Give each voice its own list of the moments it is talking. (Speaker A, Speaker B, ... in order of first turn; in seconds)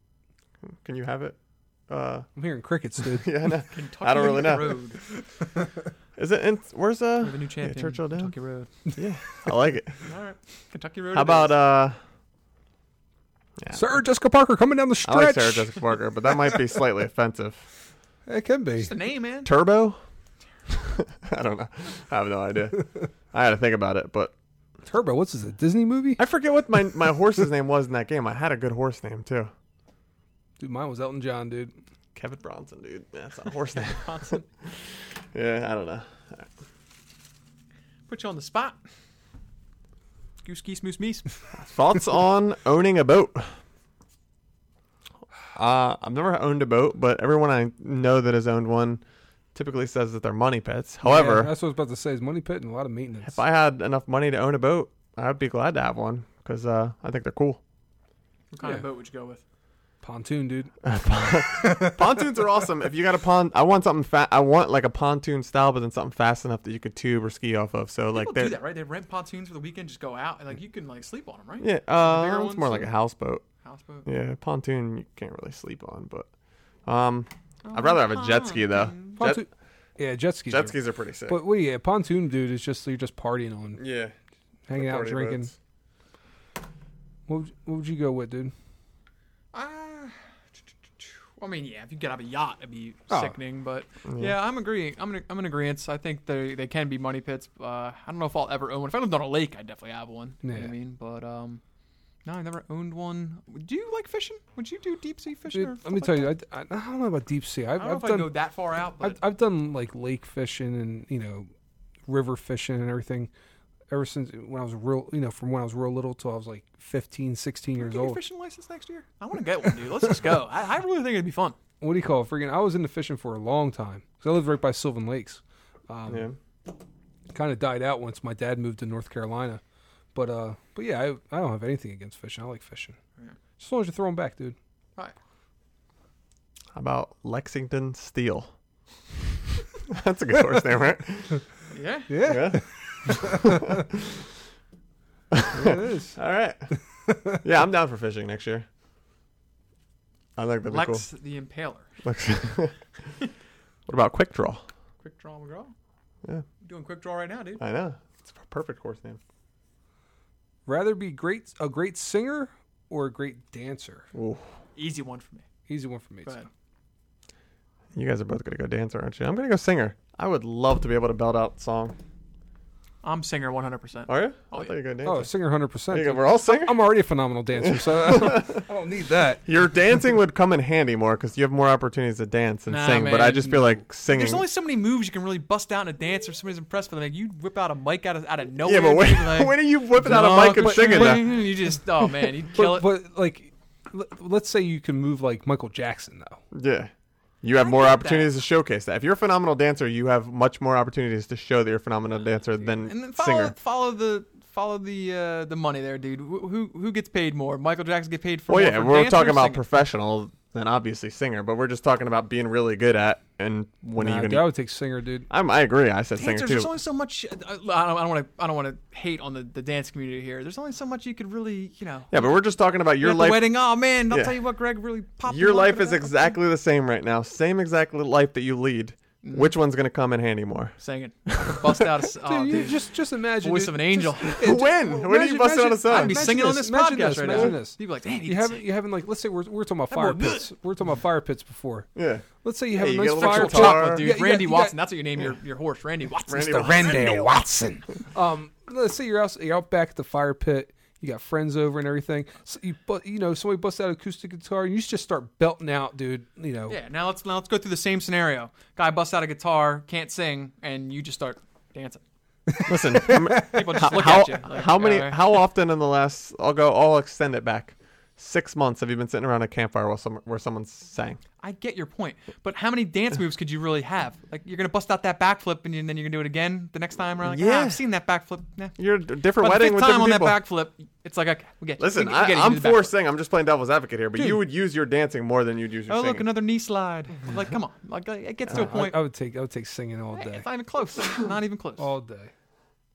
Speaker A: 0.6-1.4, 1.9-2.3, 3.1-4.8, 6.2-8.3, 8.9-10.0, 11.1-12.0, 13.6-13.9, 15.0-17.6, 19.4-20.0, 20.7-24.3, 26.2-29.5, 32.1-34.7, 35.3-36.5, 41.5-43.6, 45.5-49.0, 49.5-51.5, 53.2-57.6, 60.8-68.6, 71.6-73.4, 74.0-76.3, 76.9-79.4, 80.5-81.4, 83.8-84.1, 84.7-85.5, 94.0-94.4, 126.1-126.4, 136.7-138.5, 139.9-141.4, 142.2-144.3, 145.3-146.7, 147.4-148.7, 150.4-151.0, 152.0-152.8, 153.9-154.6, 157.6-159.2, 164.1-164.4, 167.9-172.0, 174.1-175.3, 175.9-176.9, 177.6-178.6, 179.4-184.4, 188.6-191.3, 196.5-196.9, 197.4-203.5, 208.5-214.5, 215.3-216.7, 222.1-223.5, 224.1-224.4, 225.3-230.7, 231.3-231.9, 234.4-236.4, 237.3-237.6, 241.9-244.1, 246.3-247.2, 262.7-271.2, 277.2-277.8, 278.8-280.4, 281.8-286.3
Speaker B: 2.4-3.4, 13.7-15.8, 18.3-18.9, 24.8-26.2, 30.6-31.7, 51.0-53.4, 60.0-60.7, 61.5-62.1, 79.2-80.8, 81.3-83.8, 84.7-85.5, 87.3-88.5, 93.1-93.4, 100.4-100.7, 105.5-108.3, 109.0-111.5, 112.1-113.3, 113.9-118.2, 121.8-126.3, 127.3-129.6, 130.1-133.0, 133.6-134.6, 142.1-143.8, 145.5-146.2, 147.1-147.4, 160.7-164.1, 165.7-166.4, 175.0-179.4, 190.0-191.5, 192.5-196.4, 214.0-215.3, 232.2-241.9, 242.4-244.8, 246.3-256.8, 262.5-264.0, 284.2-284.4, 288.5-290.4, 291.8-292.3
Speaker C: 3.7-5.0, 7.2-8.7, 10.0-11.5, 18.8-19.5, 33.7-34.5, 38.1-38.8, 40.4-41.2, 58.5-59.4, 68.1-72.9, 73.6-74.1, 77.7-79.2, 89.5-90.2, 91.0-101.6, 102.2-106.3, 107.8-109.2, 117.8-121.5, 141.7-142.3, 150.7-151.9, 155.0-155.7, 156.6-157.6, 164.8-165.4, 173.0-174.7, 182.7-192.9, 197.5-198.3, 202.8-209.6, 216.2-222.2, 223.0-226.3, 229.2-229.5, 230.8-234.5, 235.9-238.6, 239.9-240.5, 243.1-247.4, 256.7-262.0, 263.3-265.4, 271.4-278.8, 279.4-282.9, 285.9-289.0, 290.1-291.9